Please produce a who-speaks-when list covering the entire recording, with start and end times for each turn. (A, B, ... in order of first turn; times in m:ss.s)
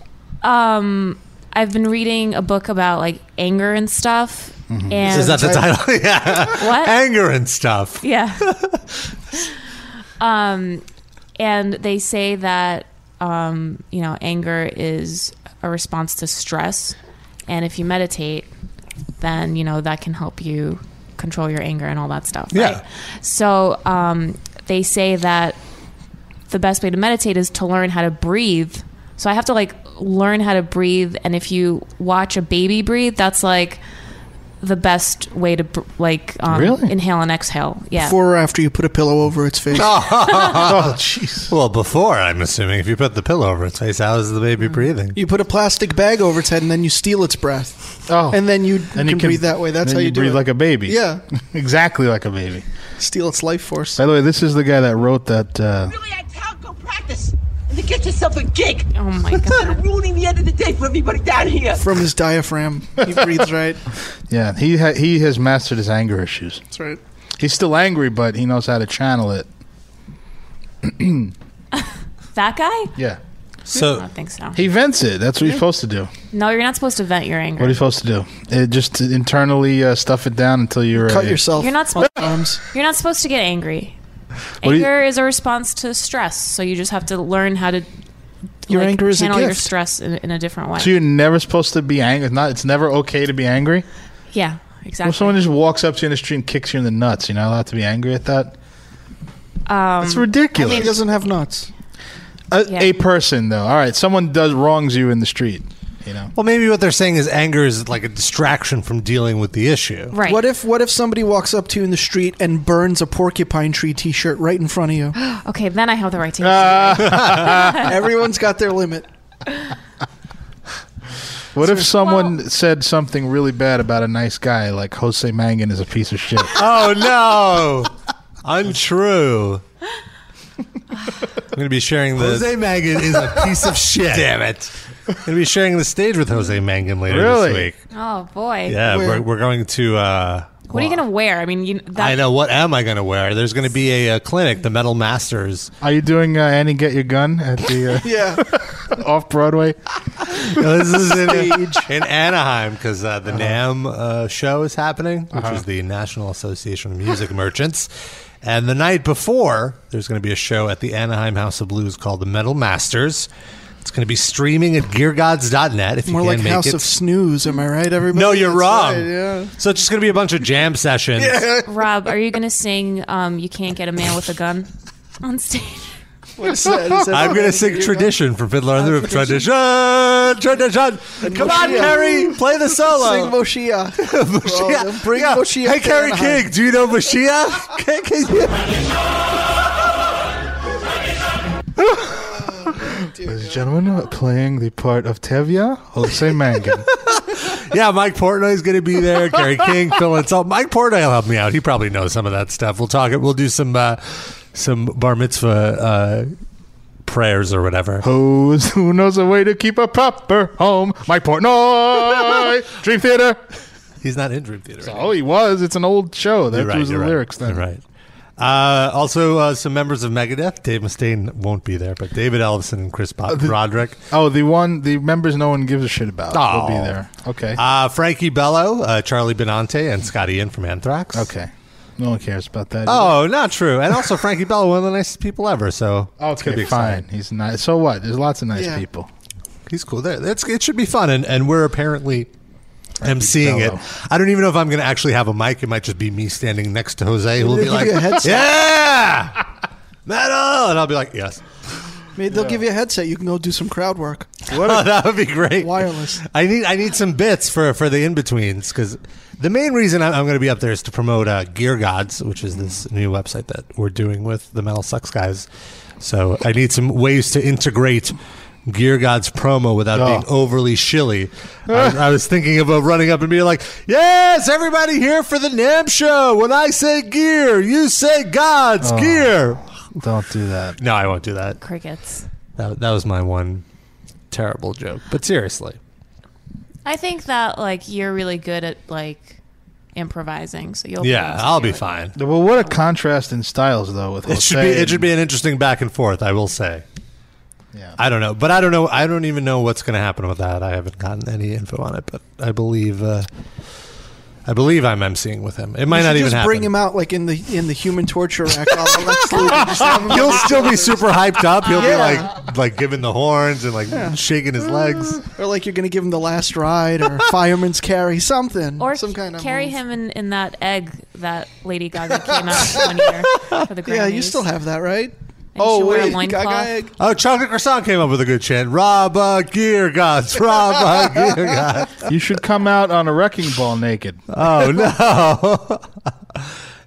0:00.4-0:05.6 A
0:04.7-0:05.7 B
0:05.1-0:08.8 C
0:06.4-0:06.9 A
0:08.0-0:08.4 A
0:10.2-0:10.8 A
0:11.4-0:18.5 A
0:19.2-0:25.6 A
0:22.5-0:22.8 C
0:26.5-0:33.8 A
0:34.6-0:38.2 A
0:36.5-0:36.9 B
0:38.0-0:40.0 D
0:39.7-0:41.0 C
0:40.3-0:40.6 A
0:40.6-0:41.5 B
0:41.5-0:45.2 C
0:45.1-0:51.2 D
0:48.1-0:52.6 B
0:53.0-0:54.0 D
0:54.0-0:56.0 B
0:56.0-0:58.8 E
0:58.9-0:59.8 A
0:59.6-1:01.8 E
1:01.7-1:03.8 D
1:04.3-1:06.6 B
1:06.7-1:07.0 D
1:07.4-1:09.5 B
1:10.8-1:11.3 B
1:11.8-1:12.9 A
1:13.7-1:14.0 C
1:13.8-1:14.6 A
1:14.5-1:16.1 B
1:16.3-1:17.8 A
1:17.6-1:21.4 B
1:21.0-1:22.6 D
1:21.5-1:24.0 A
1:24.6-1:24.9 B
1:24.6-1:27.9 A
1:28.6-1:30.9 A
1:28.7-1:29.7 D
1:30.8-1:33.8 B
1:34.3-1:35.4 A
1:35.0-1:38.5 B
1:39.7-1:41.0 A
1:40.0-1:41.0 B
1:40.7-1:41.7 D
1:42.5-1:46.3 B
1:42.6-1:42.9 A
1:46.4-1:50.2 C
1:50.1-1:50.4 A
1:50.2-1:55.2 D
1:55.2-1:57.9 A
1:56.4-1:58.0 B
1:57.7-1:59.0 D
2:01.5-2:06.6 B
2:01.9-2:02.4 A
2:06.5-2:07.9 C
2:08.4-2:09.6 C
2:11.5-2:17.8 C
2:17.1-2:17.7 B
2:17.9-2:18.8 A
2:18.7-2:20.7 C
2:18.8-2:19.2 D
2:20.7-2:22.2 A
2:22.0-2:25.7 C
2:25.8-2:30.4 B
2:28.0-2:28.4 D
2:30.4-2:37.9 C
2:30.8-2:31.9 D
2:33.3-2:33.6 B
2:35.3-2:35.6 B
2:38.4-2:43.3 C
2:43.8-2:46.9 C
2:46.1-2:49.5 D
2:48.1-2:51.4 C
2:51.2-2:51.7 D
2:51.6-2:54.7 A
2:55.2-2:56.0 A
2:56.4-2:58.1 D
2:57.1-3:03.4 C
2:58.8-2:59.4 D
3:01.2-3:06.4 D
3:04.0-3:08.6 C
3:12.1-3:13.6 D
3:13.2-3:16.9 B
3:17.1-3:26.3 C
3:27.0-3:28.0 C
3:28.0-3:33.4 B
3:34.0-3:35.1 C
3:34.8-3:37.6 B
3:36.5-3:37.8 C
3:38.4-3:44.0 C
3:43.3-3:43.5 B
3:44.1-3:47.6 B
3:46.3-3:47.0 C
3:47.6-3:51.3 C
3:51.1-3:53.2 B
3:52.9-3:57.0 C
3:56.2-3:59.1 B
3:58.6-3:58.8 D
3:59.7-4:02.3 C
4:03.0-4:03.8 B
4:03.0-4:09.4 C
4:07.4-4:08.5 D
4:10.0-4:11.4 C
4:12.2-4:14.3 D
4:12.3-4:12.6 B
4:14.5-4:14.9 B
4:14.5-4:25.5 C
4:15.6-4:16.2 D
4:26.0-4:28.2 C
4:28.7-4:39.6 C
4:29.9-4:30.2 B
4:31.7-4:32.0 B
4:38.8-4:40.8 B
4:40.8-4:41.6 C
4:41.6-4:42.2 A
4:42.6-4:43.6 C
4:44.3-4:45.8 C
4:46.8-4:49.4 A
4:49.9-4:52.8 A
4:51.0-4:52.1 C
4:52.1-4:55.1 B
4:54.3-4:56.8 C
4:57.7-4:58.0 B
4:58.0-5:03.3 C
5:04.4-5:06.7 C
5:05.9-5:11.0 D
5:09.3-5:15.2 C
5:11.6-5:12.3 D
5:13.9-5:14.2 D
5:15.3-5:19.8 D
5:18.8-5:24.4 A
5:23.8-5:26.9 D
5:25.6-5:26.7 A
5:27.0-5:32.0 C
5:32.0-5:34.2 B
5:34.3-5:36.5 C